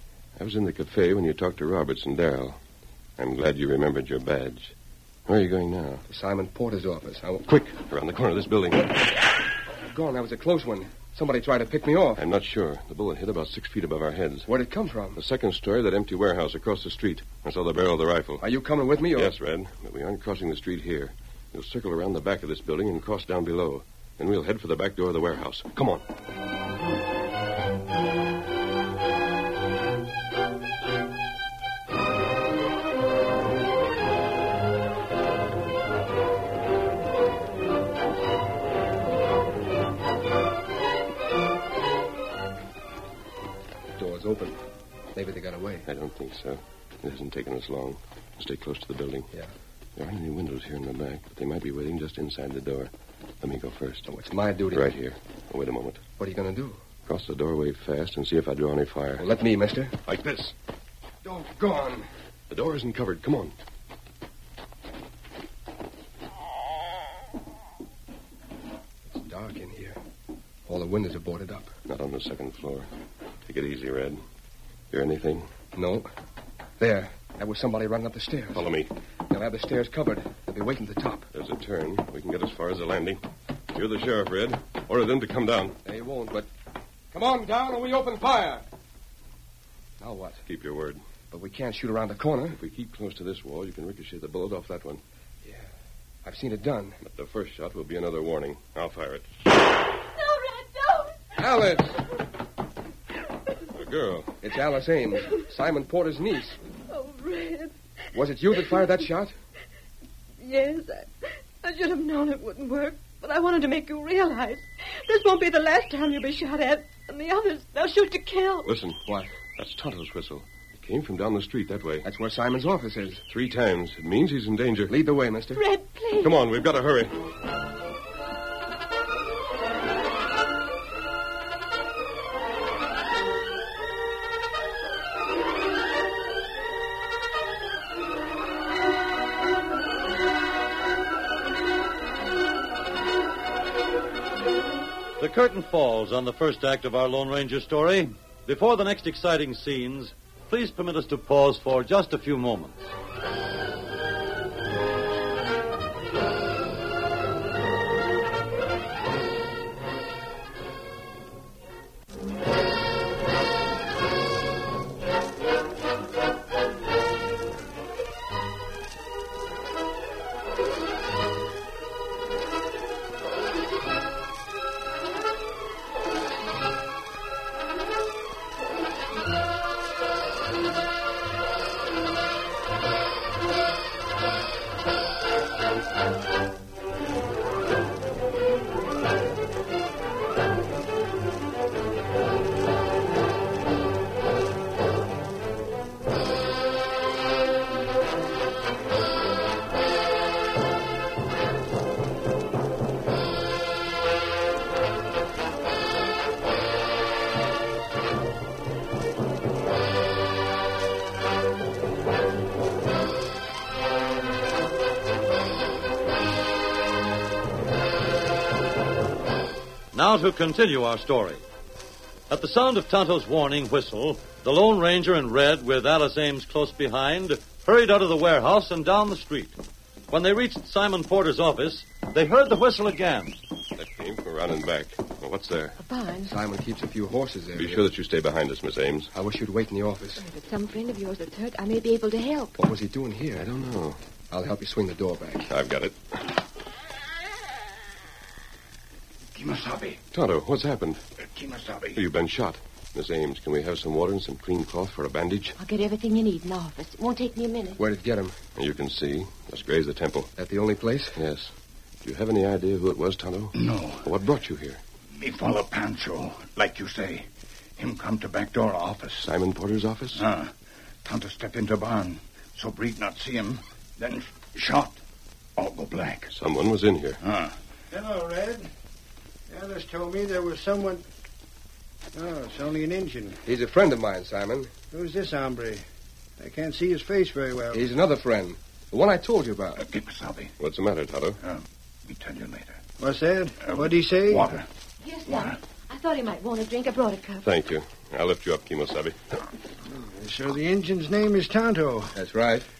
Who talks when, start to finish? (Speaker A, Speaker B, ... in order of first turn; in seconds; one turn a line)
Speaker A: 0.4-2.6
Speaker A: 3.2-4.7
Speaker A: 5.3-6.0
Speaker B: 6.1-7.7
Speaker A: 7.6-8.9
Speaker B: 9.8-12.2
Speaker A: 12.2-14.5
Speaker B: 14.5-15.2
Speaker A: 15.2-18.4
Speaker B: 18.4-19.3
Speaker A: 19.1-26.0
Speaker B: 43.9-44.6
Speaker B: 45.1-45.9
Speaker A: 45.9-49.3
Speaker A: 50.0-54.1
Speaker B: 54.1-54.9
Speaker A: 54.7-56.0
Speaker B: 56.2-56.8
Speaker A: 57.0-59.2
Speaker B: 59.2-60.0
Speaker A: 60.0-60.5
Speaker B: 61.2-62.1
Speaker A: 62.5-63.5
Speaker B: 69.0-70.0
Speaker B: 70.7-71.7
Speaker A: 71.9-72.9
Speaker A: 73.5-74.2
Speaker A: 74.9-75.5
Speaker B: 75.7-76.1
Speaker B: 76.8-78.7
Speaker A: 78.5-78.9
Speaker B: 79.3-81.3
Speaker A: 81.3-83.2
Speaker A: 83.7-85.8
Speaker B: 85.8-86.5
Speaker B: 87.1-88.6
Speaker B: 90.0-90.4
Speaker A: 90.5-91.0
Speaker B: 91.3-92.6
Speaker A: 92.5-95.0
Speaker B: 96.2-97.0
Speaker A: 97.0-99.2
Speaker C: 100.2-101.2
Speaker B: 101.3-102.0
Speaker A: 103.7-104.4
Speaker B: 104.4-106.6
Speaker C: 106.9-107.7
Speaker B: 108.1-109.3
Speaker C: 110.4-111.1
Speaker C: 111.6-118.7
Speaker A: 118.7-119.0
Speaker A: 119.5-122.0
Speaker B: 122.0-123.2
Speaker A: 123.3-124.9
Speaker B: 124.9-125.6
Speaker C: 125.5-126.3
Speaker A: 126.2-127.1
Speaker D: 145.2-152.8
Speaker D: 219.9-221.4
Speaker D: 222.3-229.6
Speaker D: 230.1-233.3
Speaker A: 233.8-235.8
Speaker C: 235.8-236.3
Speaker B: 236.2-237.8
Speaker A: 237.6-239.1
Speaker B: 239.1-240.2
Speaker C: 240.2-242.6
Speaker B: 242.6-243.5
Speaker A: 243.4-244.0
Speaker B: 244.3-245.5
Speaker A: 245.5-246.4
Speaker E: 249.3-250.0
Speaker A: 250.1-251.0
Speaker E: 251.2-252.0
Speaker A: 251.9-255.5
Speaker C: 255.6-257.8
Speaker B: 257.8-258.4
Speaker A: 258.6-260.3
Speaker B: 260.4-261.2
Speaker A: 261.1-261.5
Speaker A: 262.0-264.8
Speaker E: 263.5-264.1
Speaker E: 265.1-269.3
Speaker A: 269.2-270.2
Speaker E: 270.1-270.5
Speaker E: 271.0-275.0
Speaker E: 275.6-276.3
Speaker A: 276.3-277.2
Speaker E: 277.2-277.5
Speaker F: 277.9-278.7
Speaker F: 279.5-281.0
Speaker F: 282.1-283.4
Speaker B: 283.4-284.7
Speaker F: 284.9-285.8
Speaker F: 286.4-287.8
Speaker B: 287.7-289.8
Speaker E: 289.8-290.5
Speaker A: 290.6-291.4
Speaker E: 291.4-292.8
Speaker F: 293.0-294.5
Speaker E: 293.6-294.7
Speaker C: 295.0-297.4
Speaker E: 295.3-295.6
Speaker A: 297.4-299.1
Speaker F: 299.9-302.1
Speaker B: 302.1-302.7